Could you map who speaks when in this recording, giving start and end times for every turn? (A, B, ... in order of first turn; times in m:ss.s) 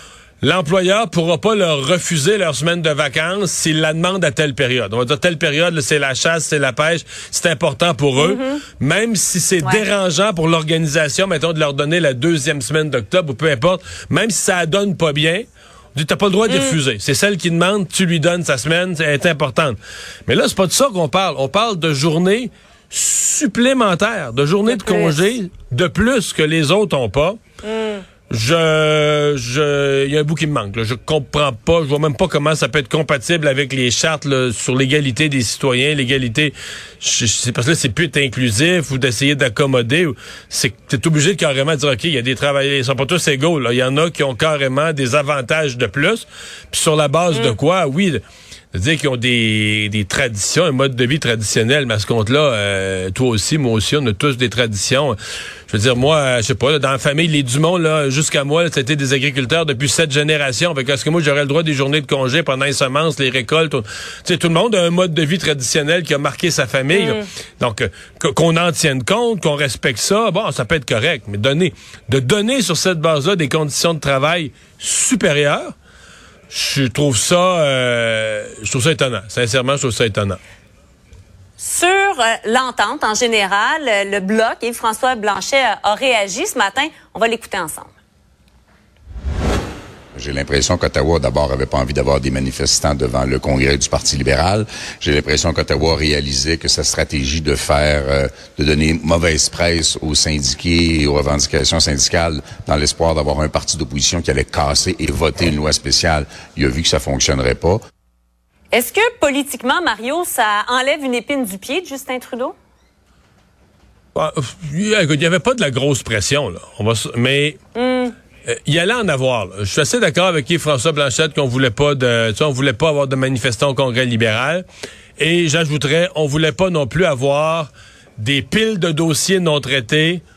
0:00.4-0:27.4 A
0:08.2-0:08.6 B
0:16.5-0:16.8 B
0:24.7-0:25.2 B
0:27.6-0:28.0 B
0:28.3-0:48.2 A
0:47.3-0:47.6 B
0:48.7-0:55.2 A
0:55.7-1:15.7 A
1:06.9-1:07.2 B
1:16.5-1:20.4 A
1:21.6-1:27.9 B
1:30.1-1:47.8 C
1:48.7-1:52.5 B
1:54.1-1:57.6 A
1:57.7-1:58.1 B
1:58.4-2:04.6 A
2:05.2-2:10.2 A